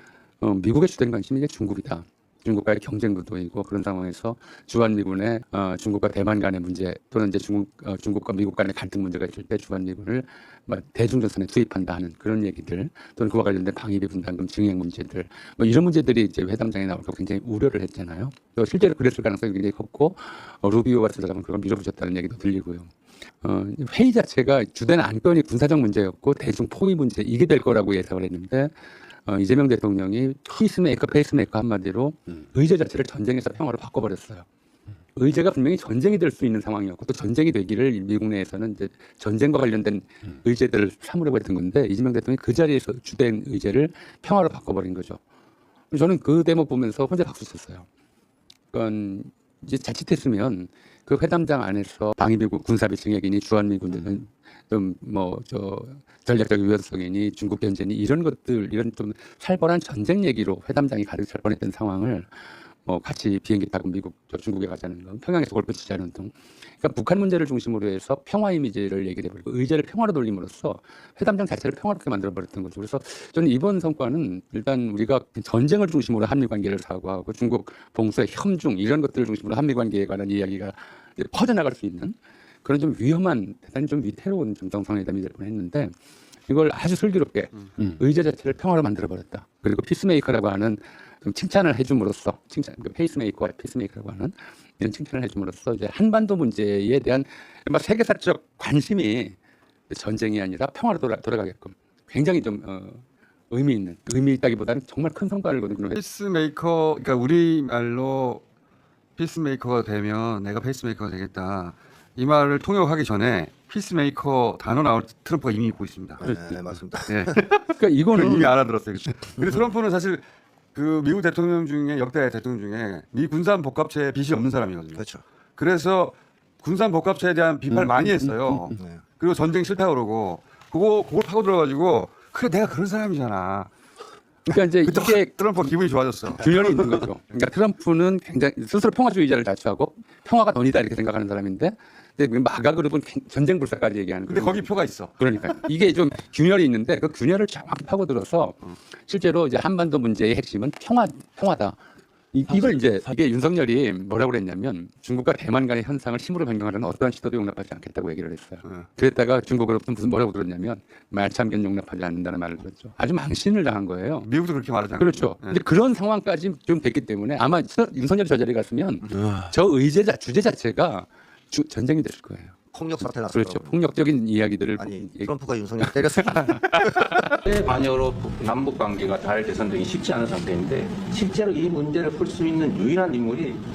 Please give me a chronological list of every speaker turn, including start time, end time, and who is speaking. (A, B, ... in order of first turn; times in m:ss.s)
0:00.4-0:22.9 A
0:23.4-0:28.7 A
0:29.2-0:34.4 A
0:35.2-0:45.2 A
0:45.9-0:47.8 A
0:48.7-1:25.9 A
1:26.5-1:39.4 A
1:39.9-1:46.0 A
1:45.9-1:48.4 B
1:49.2-1:56.2 B
1:56.2-1:57.4 C
1:56.2-1:56.6 A
1:57.1-1:58.5 A
1:57.1-2:00.2 B
2:00.7-2:05.0 B
2:04.9-2:05.2 C
2:05.6-2:13.7 B
2:08.7-2:09.0 C
2:14.5-2:15.4 A
2:14.5-2:17.0 B
2:16.3-2:31.8 A
2:24.3-2:25.2 B
2:32.3-2:44.3 A
2:44.2-2:45.6 B
2:44.9-2:57.3 A
2:52.7-2:53.8 C
2:54.8-2:57.3 C
2:57.4-3:03.6 D